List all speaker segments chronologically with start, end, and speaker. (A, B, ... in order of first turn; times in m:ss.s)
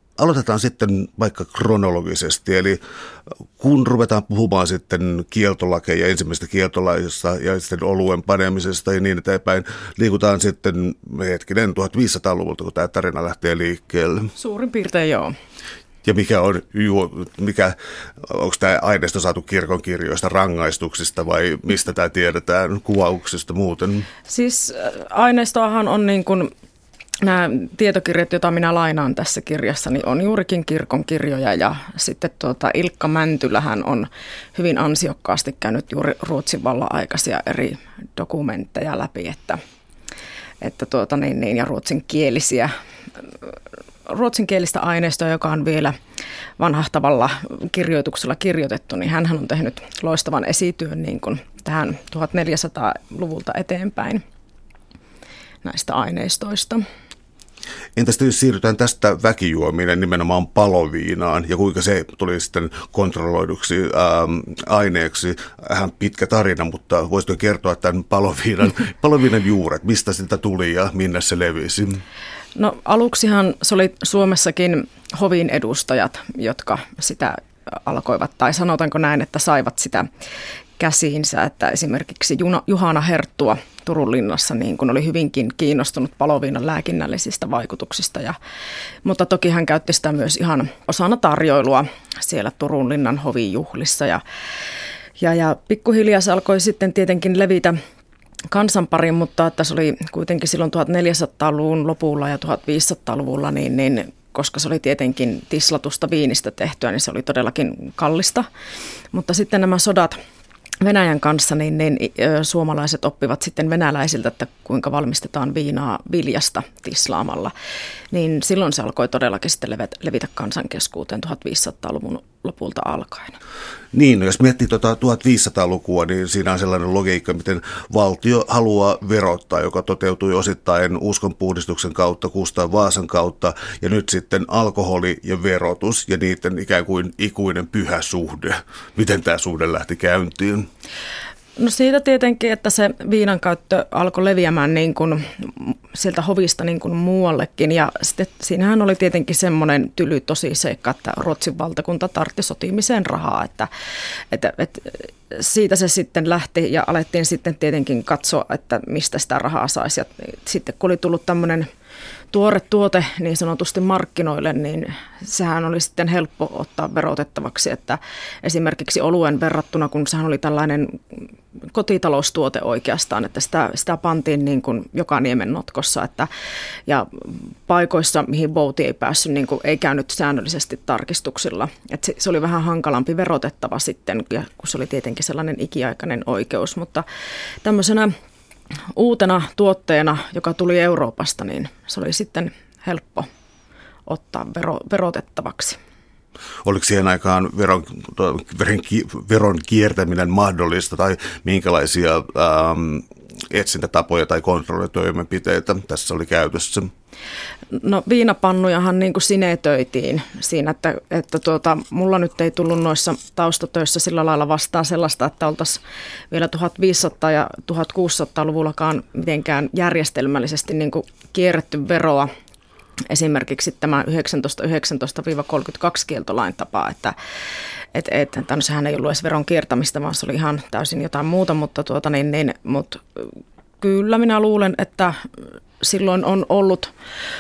0:00.2-0:02.8 A
0:03.6-0:14.3 A
0:14.4-0:15.3 B
0:16.0-0:24.1 A
0:24.3-0:26.5 B
0:27.2-0:39.6 B
0:40.6-0:42.7 B
0:44.1-0:46.0 B
0:46.6-0:54.2 B
0:55.6-0:56.8 B
0:58.0-1:12.0 A
1:12.6-1:20.1 B
1:20.8-1:28.4 B
1:29.0-1:34.2 B
1:35.2-1:37.8 B
1:38.5-1:48.5 B
1:49.1-1:50.2 B
1:50.8-1:57.5 B
1:58.1-2:03.4 B
2:03.9-2:20.7 A
2:21.6-2:41.7 B
2:42.3-2:56.3 B
2:56.9-3:07.0 B
3:07.6-3:08.1 B
3:08.9-3:13.3 B
3:14.1-3:15.8 B
3:16.6-3:26.9 A
3:27.7-3:42.3 B
3:43.1-3:47.2 B
3:47.9-3:55.2 B
3:55.8-3:56.9 B